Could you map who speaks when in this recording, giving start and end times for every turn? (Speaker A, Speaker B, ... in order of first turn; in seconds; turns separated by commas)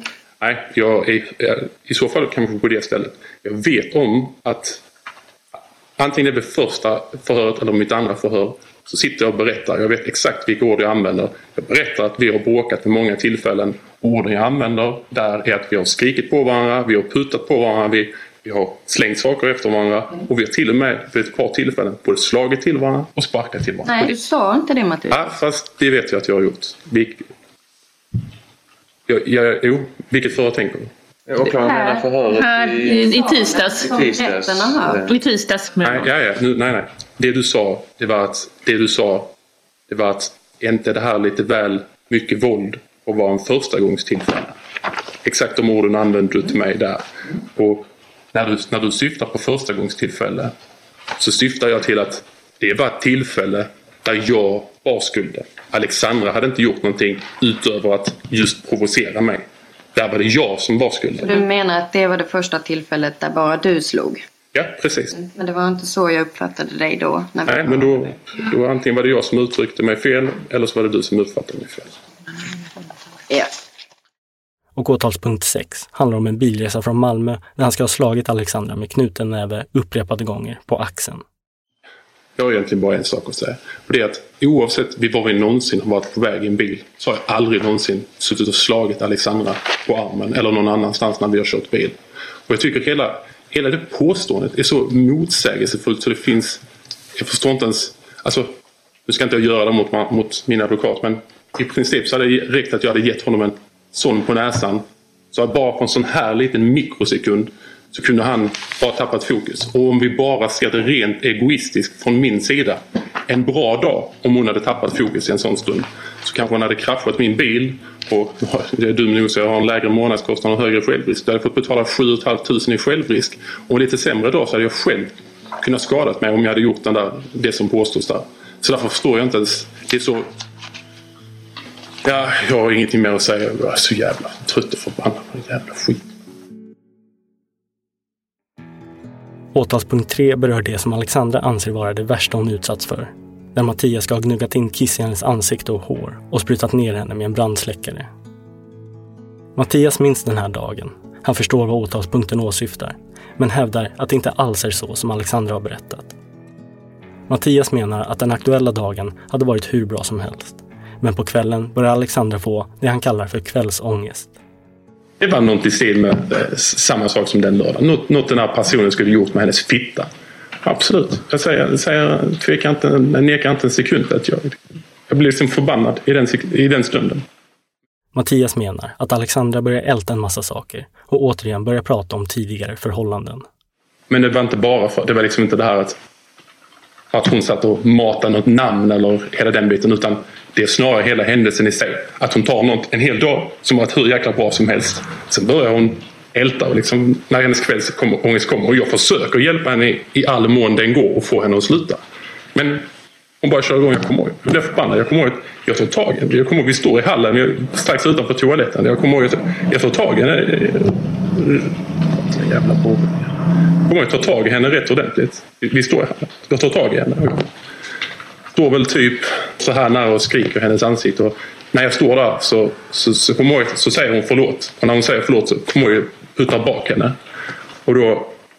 Speaker A: 0.4-4.8, Speaker A: 6.0-24.1, Speaker B: 23.8-25.2, Speaker A: 25.1-27.3, Speaker A: 29.1-30.9, Speaker C: 31.3-33.2, Speaker B: 31.4-32.1, Speaker D: 32.4-34.0, Speaker B: 32.8-35.0, Speaker C: 33.8-35.2, Speaker D: 35.0-36.0, Speaker A: 35.8-39.3, Speaker A: 39.9-44.5, Speaker A: 45.2-50.5, Speaker A: 51.2-61.3, Speaker B: 61.2-64.2, Speaker A: 64.5-65.1, Speaker B: 65.1-67.9, Speaker A: 67.5-71.9, Speaker E: 74.8-81.2, Speaker A: 82.3-96.6, Speaker A: 97.2-98.5, Speaker A: 99.1-130.3, Speaker A: 132.0-136.0, Speaker E: 139.5-148.1, Speaker E: 149.6-156.1, Speaker E: 157.3-164.3, Speaker A: 165.2-170.1, Speaker A: 170.6-177.2, Speaker E: 178.1-183.4, Speaker A: 184.1-186.0, Speaker A: 187.1-202.0, Speaker A: 202.5-202.8, Speaker A: 203.4-217.5, Speaker A: 218.5-227.2, Speaker A: 227.8-228.4